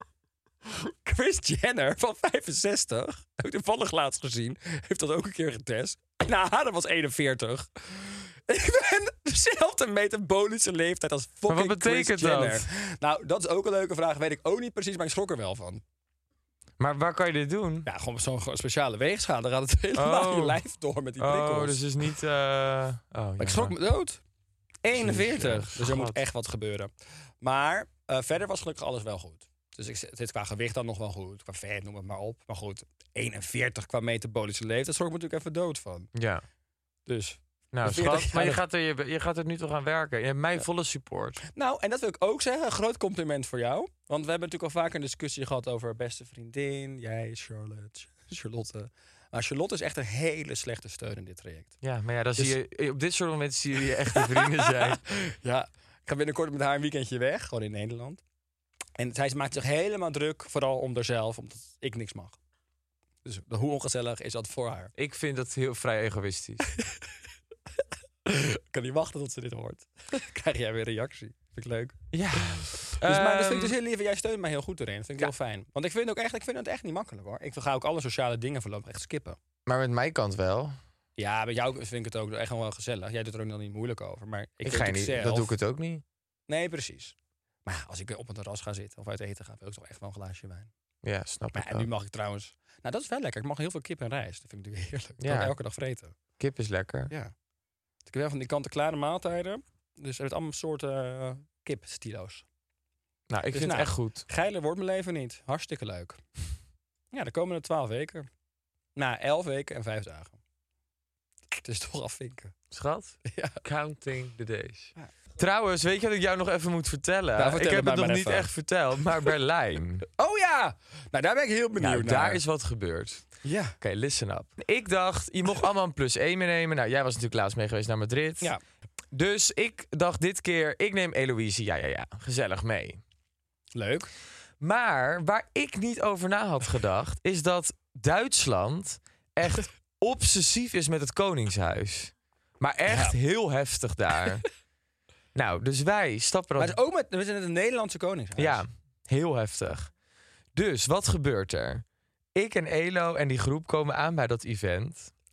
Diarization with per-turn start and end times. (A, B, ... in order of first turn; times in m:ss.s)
0:01.0-0:15.8 A
0:11.5-0:12.6 B
0:16.8-0:17.9 B
0:17.8-0:21.8 A
0:20.0-0:20.6 B
0:21.2-0:23.7 B
0:23.4-0:24.2 A
0:24.8-0:36.1 A
0:24.9-0:26.2 B
0:36.1-0:36.4 B
0:37.1-0:38.6 A
0:37.7-0:41.4 B
0:41.5-0:51.8 A
0:51.8-0:55.0 B
0:54.2-0:58.2 A
0:59.0-1:02.4 A
1:03.2-1:04.9 A
1:05.0-1:06.7 B
1:08.2-1:12.0 A
1:12.1-1:13.7 B
1:13.0-1:19.4 A
1:19.6-1:20.8 B
1:21.2-1:25.5 A
1:24.6-1:26.0 B
1:26.5-1:27.1 A
1:27.6-1:30.7 A
1:31.0-1:31.9 B
1:31.5-1:36.1 A
1:35.2-1:35.5 B
1:36.4-1:37.1 B
1:38.0-1:42.4 A
1:43.3-1:44.2 B
1:43.5-1:46.2 A
1:47.1-1:48.3 A
1:49.0-1:50.4 A
1:51.6-1:52.5 A
1:52.7-2:00.0 B
1:53.2-1:53.6 A
1:57.4-1:58.5 A
2:00.2-2:02.4 A
2:01.8-2:03.3 B
2:03.4-2:03.8 A
2:03.8-2:08.5 B
2:09.1-2:13.0 B
2:13.7-2:14.1 A
2:14.6-2:24.4 B
2:22.9-2:23.1 A
2:25.3-2:26.8 B
2:26.6-2:28.6 A
2:28.4-2:29.9 B
2:30.5-2:31.8 B
2:32.4-2:35.1 B